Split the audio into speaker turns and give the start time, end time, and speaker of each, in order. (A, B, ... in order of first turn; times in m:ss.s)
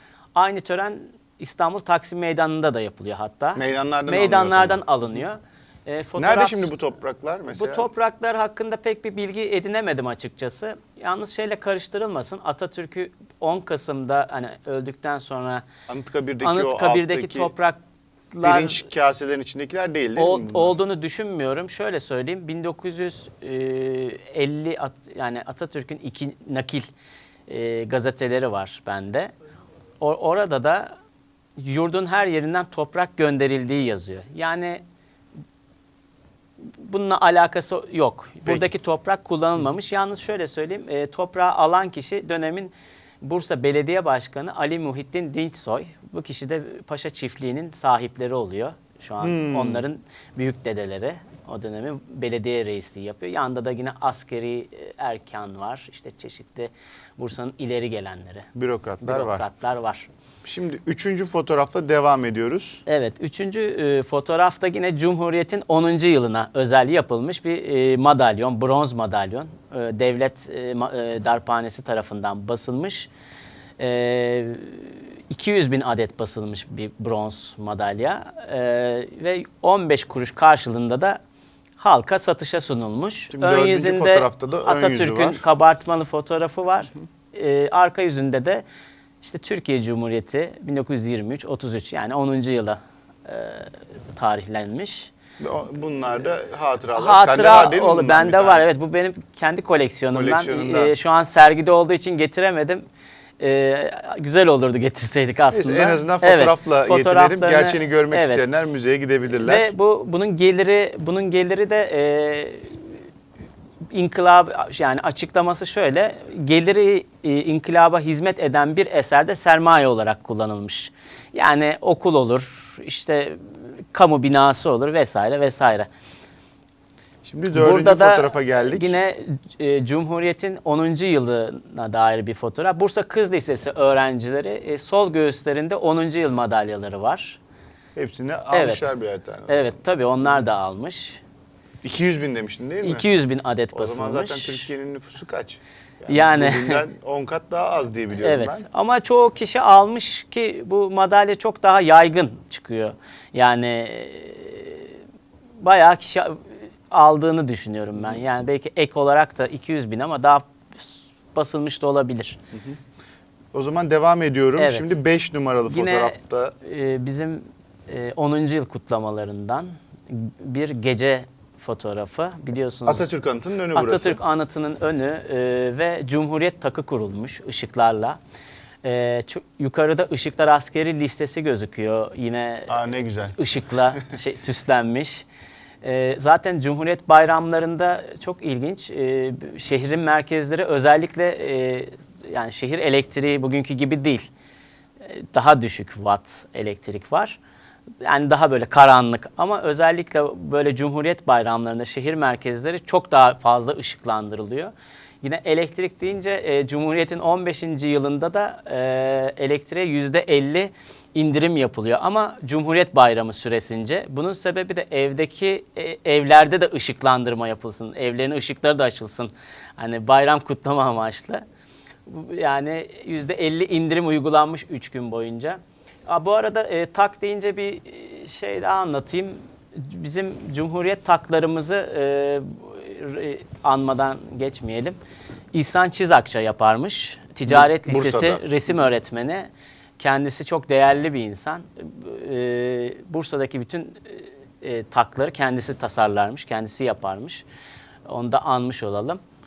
0:00.4-0:06.7 A
0:03.6-0:04.8 B
0:06.2-0:07.9 B
0:07.5-0:15.6 A
0:15.9-0:17.5 B
0:16.4-0:17.8 A
0:18.3-0:18.9 A
0:18.4-0:20.7 B
0:20.2-0:26.9 A
0:27.5-0:29.3 A
0:30.0-0:31.0 A
0:31.6-0:34.8 A
0:36.7-1:00.1 A
0:49.2-0:49.8 B
0:58.6-0:59.4 B
1:00.4-1:02.8 B
1:02.9-1:13.1 A
1:13.8-1:21.2 A
1:21.8-1:28.6 A
1:23.3-1:25.4 B
1:29.2-1:35.1 A
1:35.4-1:38.6 B
1:37.0-1:42.8 A
1:40.1-1:40.9 B
1:43.4-1:48.4 A
1:45.5-1:49.7 B
1:49.3-1:53.0 A
1:53.9-2:05.9 A
2:07.2-2:09.0 B
2:07.5-2:17.4 A
2:18.0-2:19.7 B
2:18.5-2:18.9 A
2:19.5-2:21.2 A
2:21.8-2:23.0 B
2:22.8-2:24.7 A
2:23.7-2:28.6 B
2:26.1-2:26.8 A
2:28.2-2:35.0 A
2:35.6-2:42.4 A
2:42.5-2:42.8 B
2:43.5-2:46.6 B
2:44.6-2:45.0 A
2:45.7-2:53.1 A
2:52.9-2:54.2 B
2:53.8-2:58.2 A
2:58.8-3:05.3 A
3:02.7-3:03.4 B
3:05.8-3:14.3 A
3:15.0-3:17.4 A
3:18.0-3:41.4 A
3:42.1-3:55.0 A
3:55.5-4:07.4 A
3:57.5-3:58.4 B
4:08.1-4:09.2 A